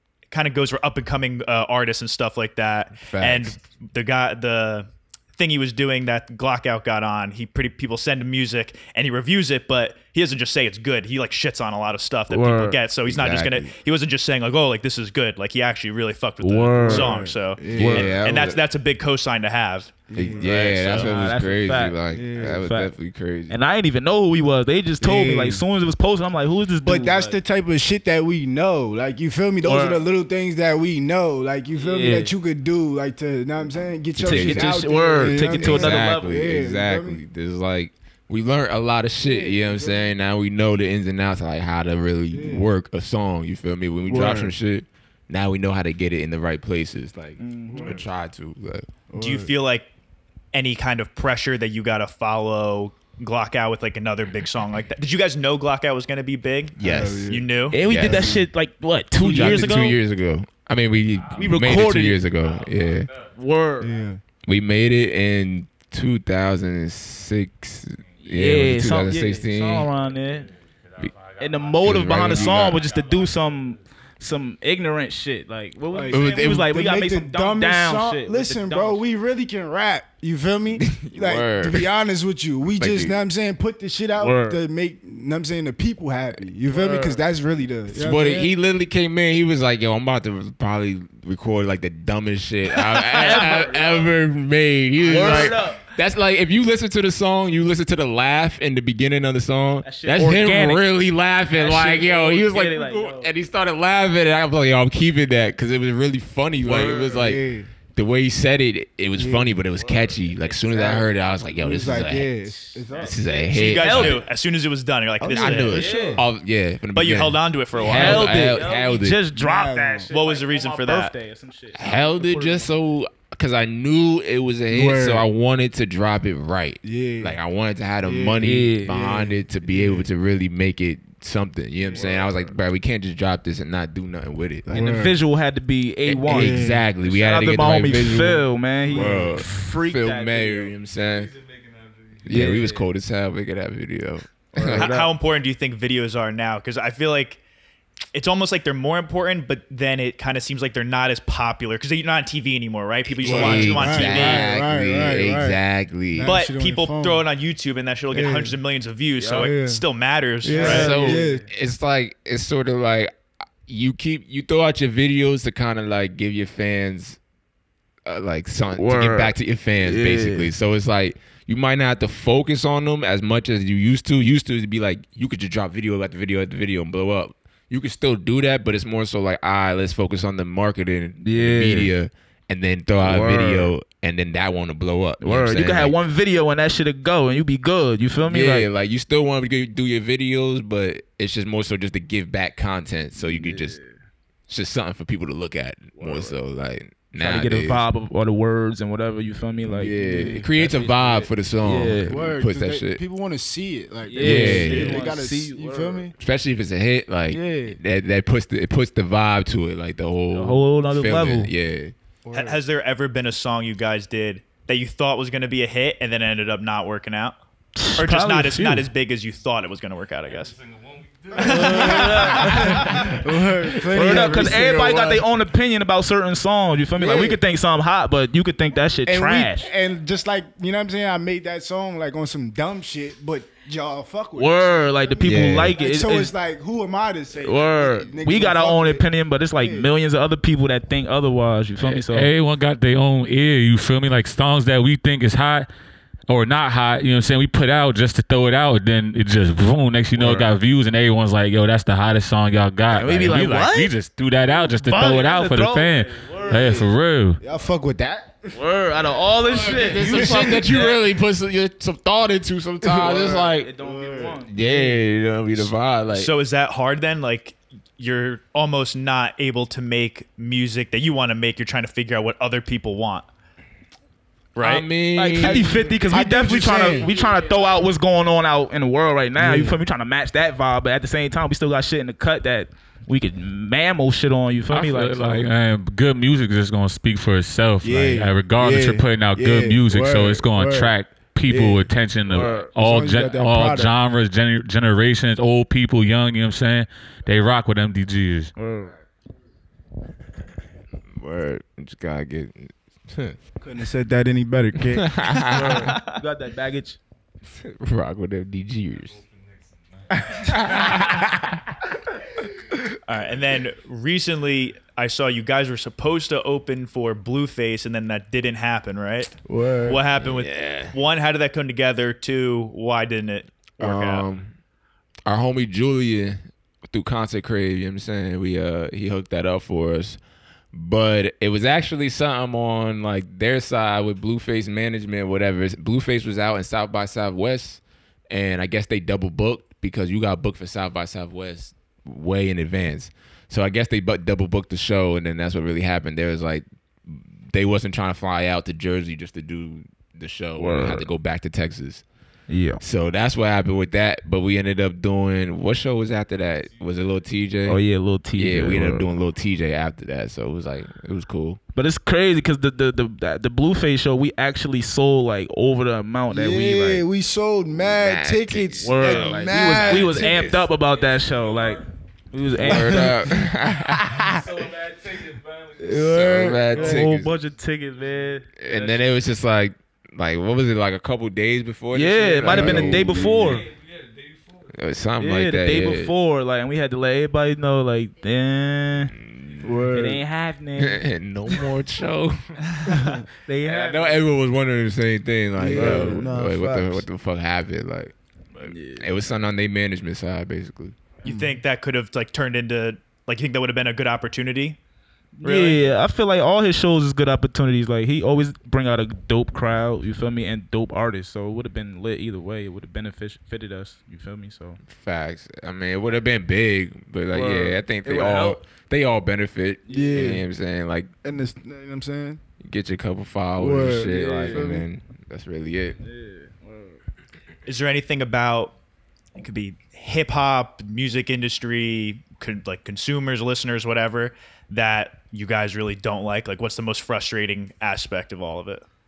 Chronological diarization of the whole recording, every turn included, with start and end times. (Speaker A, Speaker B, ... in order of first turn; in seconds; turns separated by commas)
Speaker A: 0.3-21.1, Speaker B: 3.0-3.6, Speaker C: 12.3-12.8, Speaker B: 13.1-13.7, Speaker C: 16.4-17.2, Speaker D: 16.8-18.1, Speaker B: 17.7-18.6, Speaker C: 17.7-18.1, Speaker D: 20.1-20.5, Speaker B: 20.1-23.6, Speaker C: 20.4-22.9, Speaker D: 22.1-22.6, Speaker C: 23.5-27.4, Speaker D: 25.0-25.6, Speaker D: 26.8-37.2, Speaker C: 29.6-30.1, Speaker C: 31.8-32.3, Speaker B: 34.2-48.9, Speaker C: 34.2-36.4, Speaker D: 39.2-40.1, Speaker D: 42.3-42.7, Speaker D: 44.1-44.5, Speaker C: 47.4-48.0, Speaker D: 47.7-48.0, Speaker D: 49.1-49.5, Speaker A: 49.2-49.9, Speaker A: 50.5-57.8, Speaker B: 56.8-58.4, Speaker D: 56.8-58.5, Speaker C: 57.7-60.0, Speaker D: 59.2-59.9, Speaker B: 59.2-63.1, Speaker E: 61.0-64.0, Speaker C: 61.4-62.2, Speaker C: 63.4-63.9, Speaker D: 63.8-64.2, Speaker B: 64.5-69.9, Speaker E: 68.0-68.5, Speaker C: 68.3-70.5, Speaker E: 69.1-73.9, Speaker C: 71.4-79.0, Speaker B: 71.8-72.8, Speaker D: 75.9-88.5, Speaker B: 76.1-76.7, Speaker B: 80.7-81.9, Speaker B: 82.8-83.2, Speaker C: 84.2-84.6, Speaker C: 86.7-87.2, Speaker B: 87.9-107.4, Speaker C: 93.0-94.1, Speaker E: 93.2-93.9, Speaker E: 95.0-95.8, Speaker C: 95.0-95.8, Speaker C: 99.8-100.9, Speaker C: 101.5-103.3, Speaker C: 106.7-107.3, Speaker D: 106.8-107.7, Speaker B: 108.0-112.3, Speaker D: 109.2-109.5, Speaker E: 109.8-110.1, Speaker C: 110.1-111.0, Speaker D: 110.7-111.1, Speaker D: 111.6-113.2, Speaker C: 112.5-114.3, Speaker B: 113.0-114.3, Speaker A: 113.5-115.8, Speaker D: 115.2-116.2, Speaker B: 115.3-119.2, Speaker C: 115.6-116.2, Speaker A: 116.9-118.4, Speaker C: 117.8-122.7, Speaker D: 119.3-120.1, Speaker A: 120.1-121.1, Speaker B: 121.7-134.9, Speaker D: 124.7-125.3, Speaker D: 126.8-127.4, Speaker D: 128.0-130.1, Speaker C: 128.4-128.9, Speaker D: 131.9-132.2, Speaker D: 134.7-135.2, Speaker C: 134.7-140.7, Speaker B: 136.1-141.3, Speaker D: 136.3-136.9, Speaker D: 138.9-139.4, Speaker E: 140.9-142.5, Speaker B: 142.2-144.9, Speaker C: 142.3-142.9, Speaker C: 144.6-145.1, Speaker A: 144.7-147.4, Speaker A: 148.1-154.5, Speaker B: 153.2-156.3, Speaker D: 153.2-155.6, Speaker D: 156.1-157.2, Speaker A: 156.2-160.9, Speaker D: 158.1-158.6, Speaker C: 159.2-159.5, Speaker D: 159.3-159.8, Speaker D: 160.4-161.4, Speaker C: 160.5-161.5, Speaker B: 160.6-163.1, Speaker B: 163.7-167.2, Speaker B: 168.1-186.0, Speaker C: 168.8-170.5, Speaker C: 181.2-181.9, Speaker C: 183.0-183.7, Speaker C: 185.2-188.7, Speaker B: 188.2-193.8, Speaker C: 193.2-194.0, Speaker B: 194.5-197.9, Speaker C: 196.0-196.4, Speaker C: 197.1-202.2, Speaker B: 199.7-203.0, Speaker D: 199.9-200.5, Speaker D: 202.1-206.1, Speaker C: 204.1-206.1, Speaker B: 204.2-205.1, Speaker B: 206.2-211.9, Speaker D: 207.3-207.8, Speaker C: 210.3-211.5, Speaker D: 212.2-212.6, Speaker A: 212.3-217.4, Speaker C: 217.8-218.9, Speaker A: 218.0-220.6, Speaker E: 220.3-224.1, Speaker D: 221.4-225.2, Speaker A: 221.4-222.0, Speaker C: 221.4-223.1, Speaker C: 223.9-229.7, Speaker D: 227.0-227.4, Speaker D: 229.1-239.9, Speaker C: 234.3-236.3, Speaker B: 235.2-235.8, Speaker C: 237.4-242.3, Speaker F: 241.8-245.7, Speaker F: 246.3-257.4, Speaker C: 250.2-250.5, Speaker C: 252.9-253.9, Speaker C: 254.8-256.9, Speaker D: 256.4-258.6, Speaker C: 258.5-261.0, Speaker B: 259.4-263.7, Speaker D: 259.9-260.6, Speaker D: 262.8-264.4, Speaker C: 263.1-265.0, Speaker B: 264.5-266.3, Speaker A: 266.1-273.3, Speaker A: 274.6-274.9, Speaker B: 274.6-275.9, Speaker C: 275.1-285.5, Speaker D: 275.4-277.1, Speaker E: 277.0-277.9, Speaker D: 279.4-279.8, Speaker F: 284.7-298.5, Speaker D: 287.8-290.9, Speaker D: 291.5-291.9, Speaker C: 292.3-292.7, Speaker D: 292.8-293.9, Speaker C: 298.6-298.9, Speaker B: 301.1-303.4, Speaker D: 303.6-305.1, Speaker B: 304.8-305.9, Speaker C: 305.5-307.0, Speaker A: 305.8-306.2, Speaker B: 307.5-309.2, Speaker E: 308.9-311.4, Speaker B: 310.4-311.7, Speaker A: 313.1-319.3, Speaker D: 319.5-320.0, Speaker A: 319.8-324.3, Speaker B: 320.1-321.0, Speaker B: 323.8-324.5, Speaker B: 325.3-330.2, Speaker B: 330.7-352.0, Speaker C: 350.6-351.1, Speaker C: 352.5-352.8, Speaker B: 352.8-357.8, Speaker E: 356.5-357.2, Speaker C: 357.7-359.1, Speaker B: 358.3-361.6, Speaker C: 361.8-367.1, Speaker D: 366.3-370.4, Speaker B: 367.7-370.7, Speaker C: 368.8-373.1, Speaker E: 370.7-371.9, Speaker B: 372.6-374.5, Speaker D: 372.6-373.4, Speaker E: 374.1-377.4, Speaker D: 375.8-376.8, Speaker B: 375.9-377.3, Speaker C: 376.7-379.0, Speaker E: 378.0-378.9, Speaker B: 378.6-383.6, Speaker C: 381.9-383.7, Speaker D: 382.4-383.3, Speaker E: 383.2-384.8, Speaker B: 384.7-386.1, Speaker C: 385.2-389.1, Speaker B: 389.1-389.8, Speaker D: 389.6-390.2, Speaker C: 389.9-391.0, Speaker B: 390.8-392.5, Speaker C: 393.5-394.2, Speaker B: 393.6-401.0, Speaker D: 395.6-397.1, Speaker C: 395.7-396.3, Speaker C: 398.7-399.1, Speaker A: 401.2-404.8, Speaker D: 401.3-401.6, Speaker C: 405.4-414.8, Speaker A: 405.4-405.9, Speaker B: 414.9-421.1, Speaker C: 417.3-418.6, Speaker C: 419.9-420.4, Speaker D: 419.9-420.4, Speaker D: 421.2-422.4, Speaker B: 422.6-426.0, Speaker D: 423.6-424.9, Speaker C: 424.1-424.7, Speaker C: 426.0-427.0, Speaker A: 427.7-428.8, Speaker A: 429.4-438.8